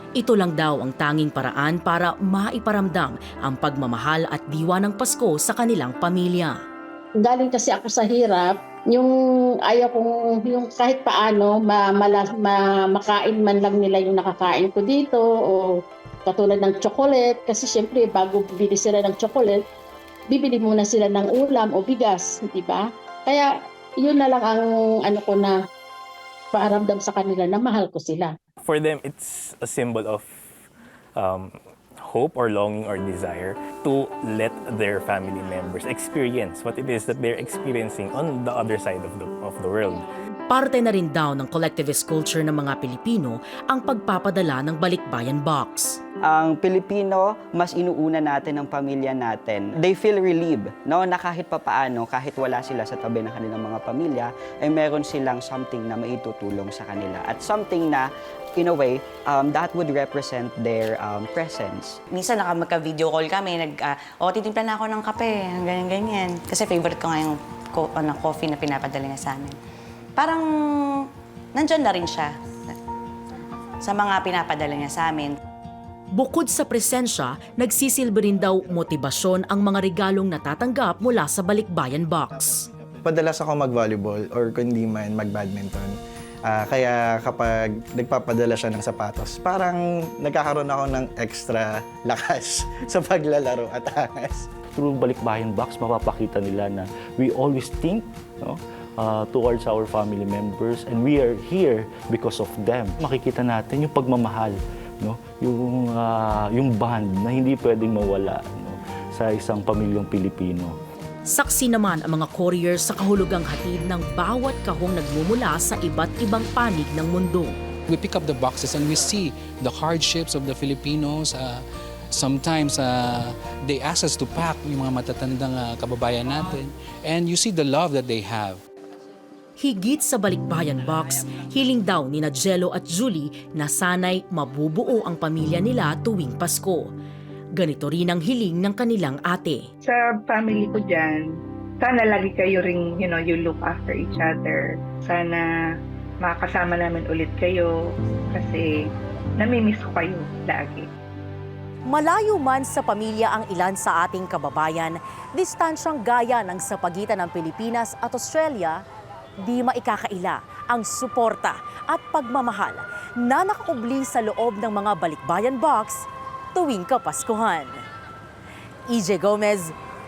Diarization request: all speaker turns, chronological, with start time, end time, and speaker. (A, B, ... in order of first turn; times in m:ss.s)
0:00.2-0:06.6 A
0:07.2-0:09.1 B
0:09.7-0:15.7 B
0:16.3-0:19.6 B
0:20.3-0:25.6 B
0:26.5-0:28.4 B
0:28.6-0:30.3 C
0:31.2-0:40.1 C
0:40.5-0:46.0 A
0:46.2-1:02.0 D
1:02.1-1:09.6 E
1:10.2-1:10.5 E
1:11.5-1:12.8 E
1:13.8-1:15.3 E
1:16.1-1:22.6 A
1:23.0-1:26.0 F
1:26.5-1:34.5 F
1:34.7-1:50.8 G
1:51.3-1:57.6 A
1:57.9-2:08.6 H
2:09.6-2:16.9 A
2:17.6-2:19.7 A
2:19.8-2:21.3 I
2:21.8-2:25.5 I
2:26.2-2:27.7 I
2:28.3-2:28.8 I
2:29.4-2:30.9 I
2:31.9-2:38.8 A
2:39.4-2:47.8 A
2:48.9-2:49.8 A